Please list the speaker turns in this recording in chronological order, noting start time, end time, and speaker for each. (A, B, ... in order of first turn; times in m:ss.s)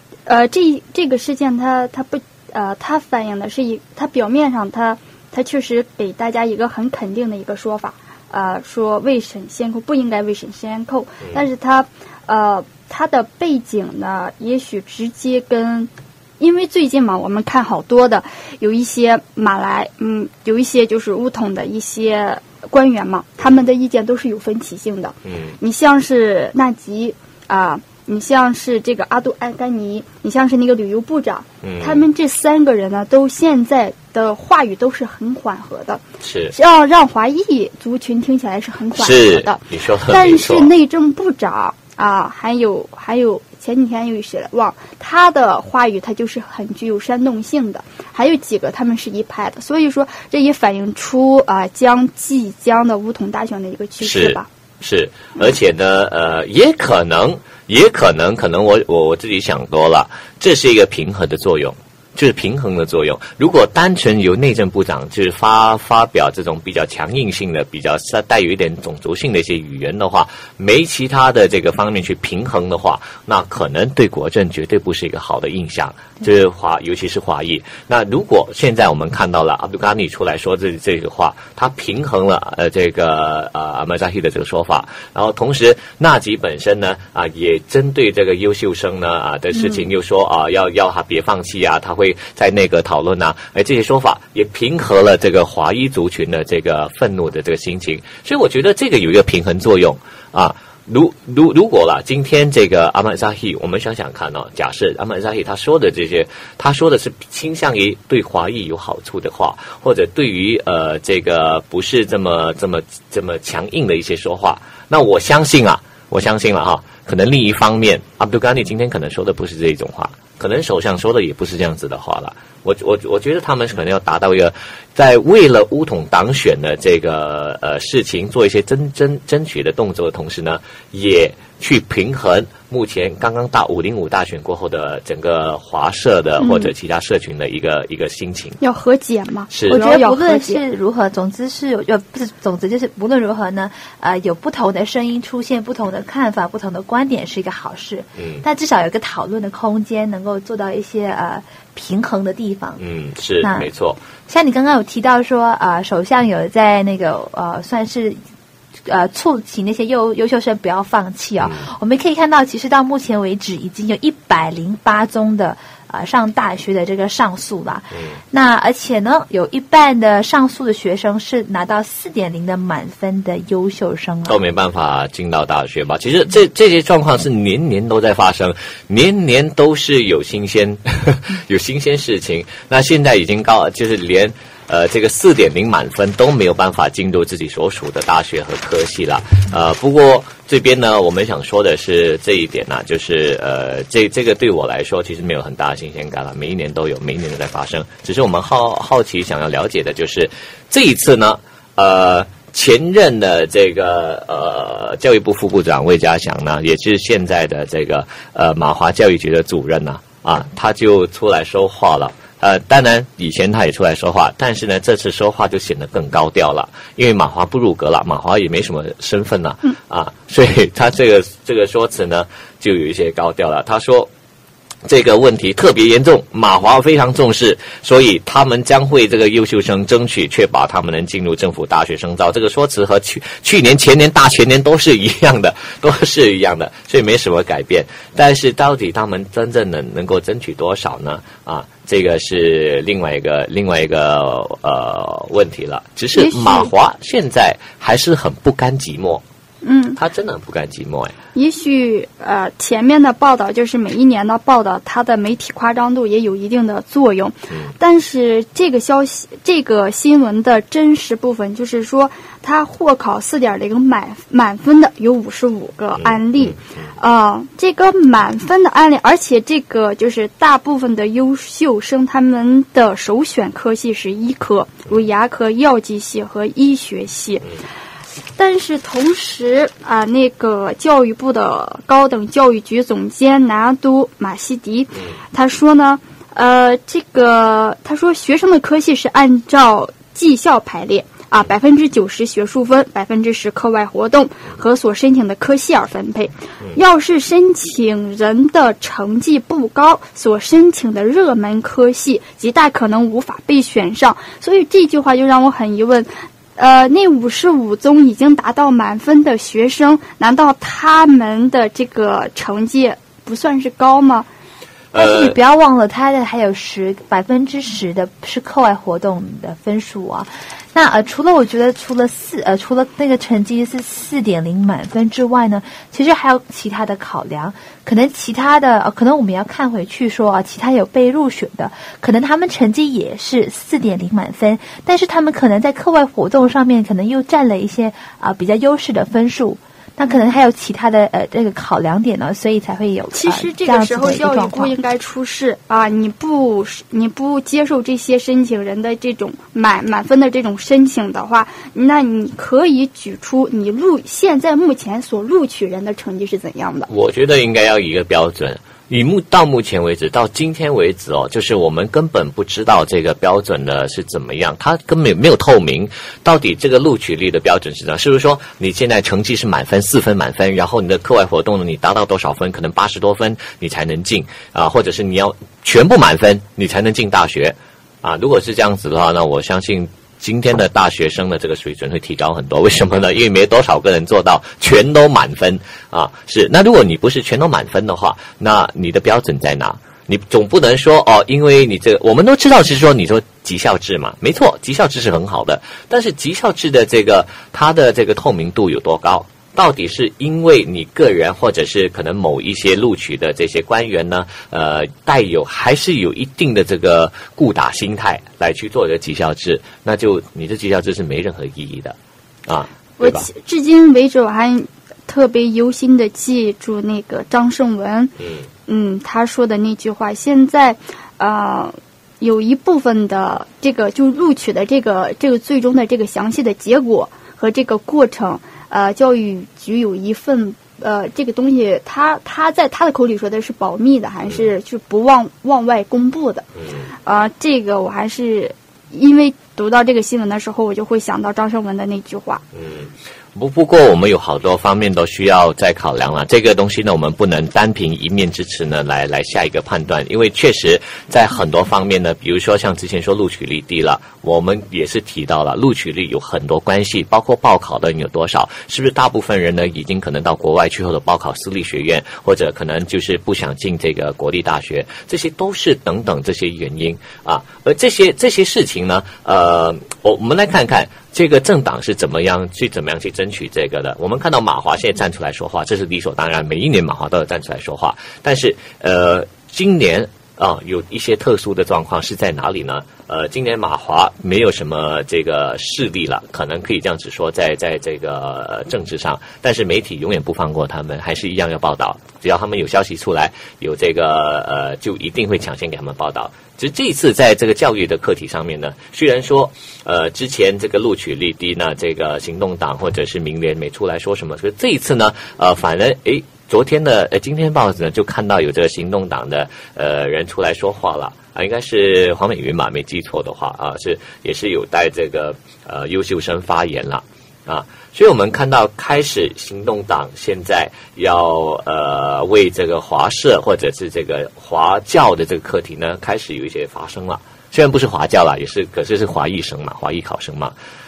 0:00.3-0:54.5 A
0:25.2-0:25.6 B
0:31.6-0:32.1 B
0:36.2-0:36.6 B
0:39.0-0:40.7 B
0:54.0-2:18.6 B
2:16.4-2:16.7 A
2:18.6-2:20.6 A
2:19.5-2:19.8 B
2:19.7-2:32.8 C
2:28.2-2:28.4 B
2:32.8-2:34.0 B
2:33.4-2:33.7 C
2:34.3-2:38.2 C
2:38.9-2:54.4 C
2:41.4-2:41.7 B
2:54.3-3:44.1 B
3:44.8-4:09.2 B
4:06.1-4:06.7 A
4:09.6-4:10.0 A
4:10.0-4:11.2 B
4:11.4-4:37.5 A
4:26.0-4:26.9 B
4:38.4-5:14.3 A
5:14.9-5:15.4 B
5:15.0-5:44.8 C
5:43.1-5:56.9 A
5:56.9-6:52.0 B
6:52.5-6:53.3 B
6:53.0-6:58.1 A
6:58.2-6:58.5 B
6:58.7-7:16.4 A
7:16.6-7:16.9 B
7:17.1-7:22.4 A
7:22.6-8:50.5 B